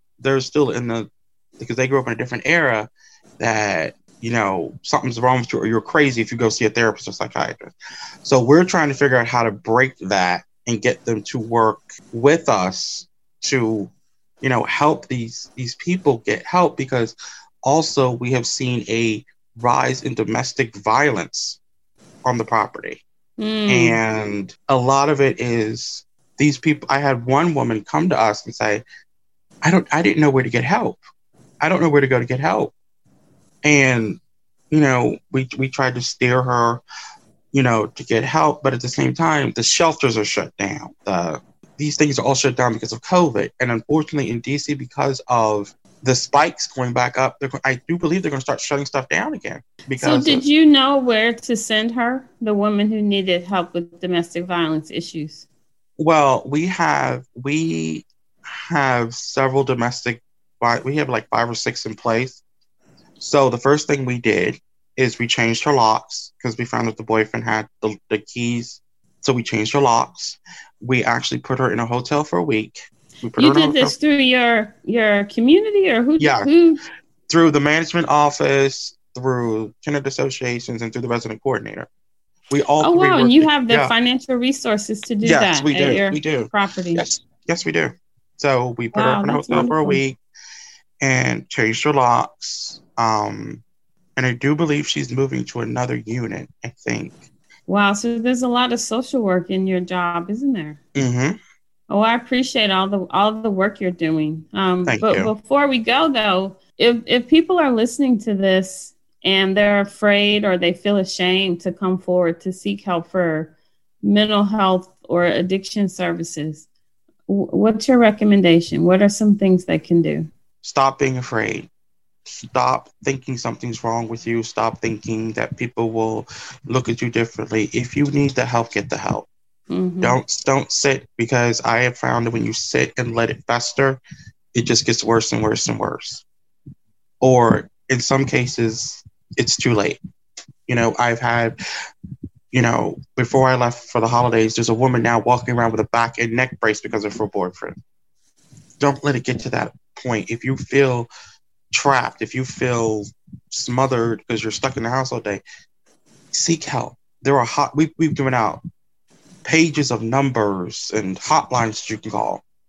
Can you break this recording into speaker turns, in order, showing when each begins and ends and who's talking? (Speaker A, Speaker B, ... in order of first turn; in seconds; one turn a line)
Speaker A: 0.2-13.9
Speaker A: 14.4-21.6
Speaker A: 22.2-23.0
Speaker B: 23.4-24.0
Speaker A: 23.7-28.8
Speaker A: 29.6-31.0
Speaker A: 31.6-32.7
Speaker A: 33.6-34.2
Speaker A: 34.7-36.8
Speaker A: 37.5-50.4
Speaker B: 50.0-55.5
Speaker A: 56.0-58.1
Speaker A: 58.7-62.4
Speaker A: 63.2-74.0
Speaker B: 73.4-76.8
Speaker A: 76.2-76.5
Speaker A: 77.3-81.9
Speaker A: 82.5-83.9
Speaker B: 82.8-87.0
Speaker A: 85.2-90.2
Speaker B: 88.9-90.0
Speaker A: 91.0-93.6
Speaker A: 94.2-97.3
Speaker B: 97.7-100.8
Speaker A: 101.0-101.4
Speaker B: 101.9-116.7
Speaker A: 104.9-105.3
Speaker B: 117.3-120.3
Speaker A: 120.6-121.7
Speaker A: 122.3-129.3
Speaker B: 129.7-130.2
Speaker A: 130.0-134.0
Speaker A: 134.5-136.2
Speaker A: 137.2-140.0
Speaker A: 140.7-141.6
Speaker A: 142.5-147.8
Speaker A: 148.8-151.1
Speaker A: 151.7-155.4
Speaker A: 156.3-158.6
Speaker A: 159.4-162.4